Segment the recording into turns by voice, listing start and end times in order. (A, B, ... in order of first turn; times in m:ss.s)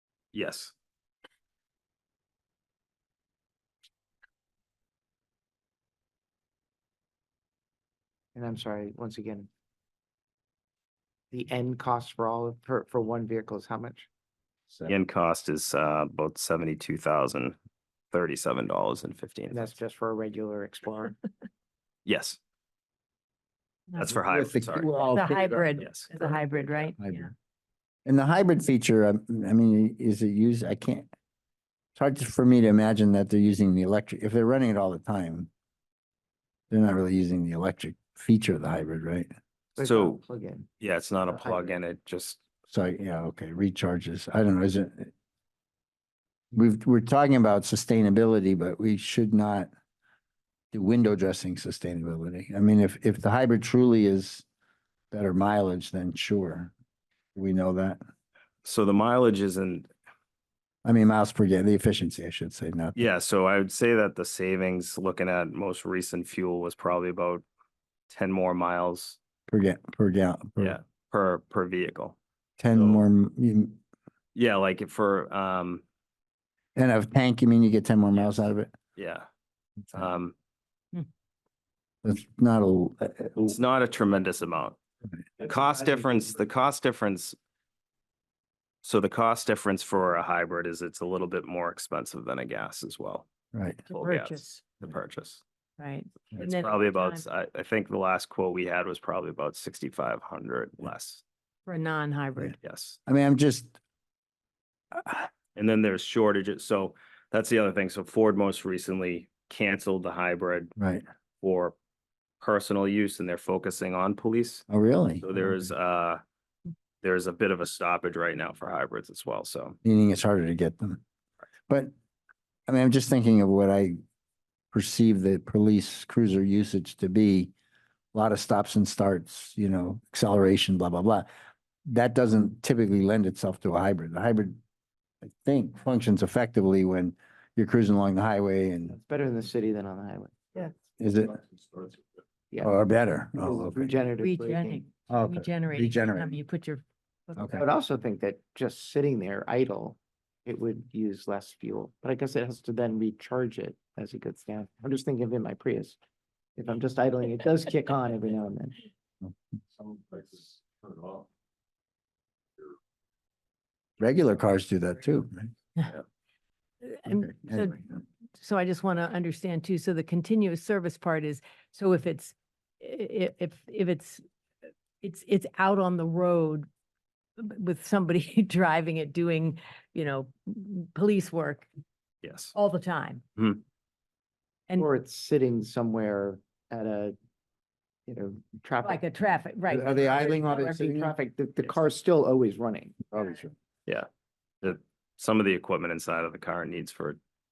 0:00.3-0:00.7 A
0:08.3-0:09.5 B
0:11.3-0:14.1 B
0:14.8-0:17.5 A
0:18.1-0:19.7 A
0:19.5-0:21.2 B
0:22.0-0:22.4 A
0:23.9-0:24.9 A
0:24.2-0:26.3 C
0:25.0-0:27.2 D
0:25.8-0:26.1 A
0:27.0-0:27.3 C
0:28.0-0:31.1 C
0:32.0-0:35.5 C
0:36.7-0:39.3 C
0:39.8-0:40.7 B
0:39.8-0:40.2 A
0:40.8-0:42.4 A
0:41.2-0:41.7 B
0:42.7-0:45.1 C
0:46.5-0:49.7 C
0:50.7-0:54.4 C
0:55.1-0:56.7 C
0:57.3-0:58.0 C
0:58.6-0:59.9 A
1:00.8-1:03.0 C
1:03.0-1:07.4 A
1:08.1-1:09.2 A
1:09.5-1:10.8 C
1:10.6-1:12.2 A
1:12.6-1:13.8 C
1:12.7-1:13.0 A
1:14.3-1:15.8 A
1:16.8-1:18.7 C
1:18.1-1:18.4 A
1:19.0-1:19.3 A
1:19.9-1:20.3 A
1:22.0-1:23.5 C
1:23.4-1:24.8 A
1:25.4-1:27.4 A
1:28.8-1:33.3 A
1:33.5-1:33.8 C
1:33.9-1:34.6 D
1:33.9-1:35.4 A
1:35.8-1:37.2 D
1:36.4-1:41.2 A
1:41.7-1:42.6 D
1:42.6-1:43.0 A
1:43.1-1:43.7 C
1:44.9-1:45.3 C
1:45.5-1:50.7 A
1:50.8-1:51.0 C
1:51.4-1:51.8 A
1:52.4-1:54.6 A
1:54.7-1:55.6 C
1:55.2-1:56.2 A
1:57.0-1:59.8 A
1:59.8-2:01.0 C
2:02.7-2:04.0 C
2:04.7-2:07.5 C
2:08.1-2:11.2 C
2:11.9-2:14.6 C
2:15.2-2:19.0 C
2:18.9-2:20.6 B
2:21.0-2:21.4 C
2:22.6-2:24.0 C
2:23.4-2:24.8 B
2:24.2-2:27.6 D
2:25.1-2:26.4 C
2:27.4-2:27.6 C
2:27.6-2:36.0 B
2:36.6-2:38.8 B
2:44.0-2:45.5 C
2:46.8-2:47.8 D
2:47.0-2:48.0 C
2:48.4-2:54.2 D
2:55.0-2:56.7 D
2:57.4-3:01.6 D
3:02.2-3:02.5 A
3:02.5-3:03.2 D
3:04.8-3:07.1 B
3:08.1-3:09.0 B
3:08.8-3:10.8 D
3:09.7-3:11.1 C
3:09.8-3:13.0 B
3:13.1-3:13.5 C
3:14.6-3:17.2 A